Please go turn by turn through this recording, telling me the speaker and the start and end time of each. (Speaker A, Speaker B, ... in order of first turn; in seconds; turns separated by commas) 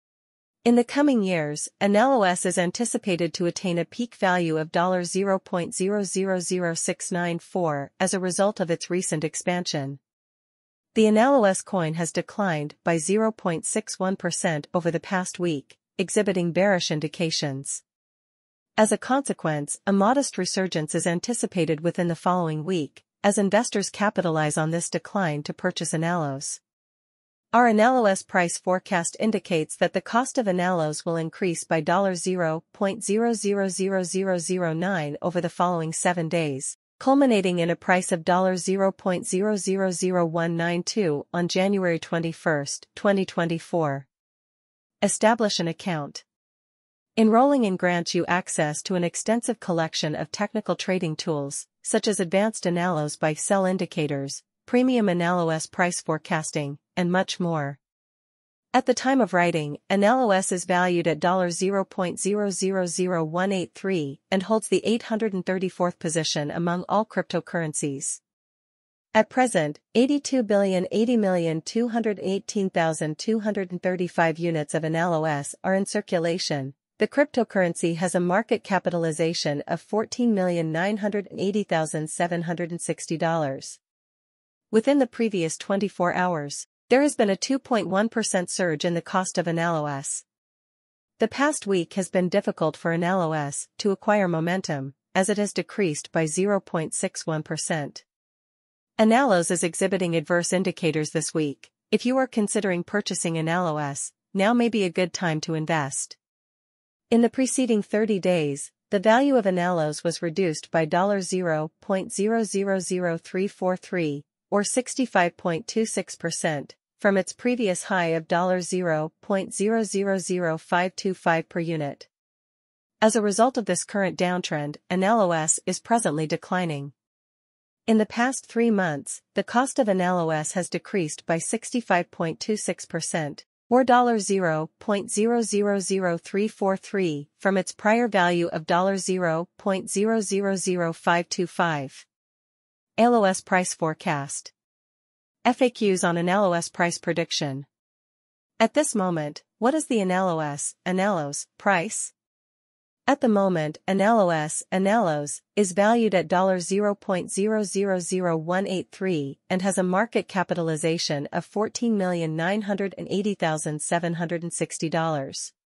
Speaker A: 0.7-10.0, Speaker A: 10.9-17.8, Speaker A: 18.8-26.6, Speaker A: 27.5-44.1, Speaker A: 45.0-46.2, Speaker A: 47.2-57.8, Speaker A: 58.7-68.2, Speaker A: 69.1-83.8, Speaker A: 84.7-90.2, Speaker A: 91.2-98.0, Speaker A: 99.0-106.2, Speaker A: 107.1-122.1, Speaker A: 123.0-126.9, Speaker A: 127.9-142.1, Speaker A: 143.0-144.5, Speaker A: 145.4-147.7, Speaker A: 148.6-152.1, Speaker A: 153.1-165.5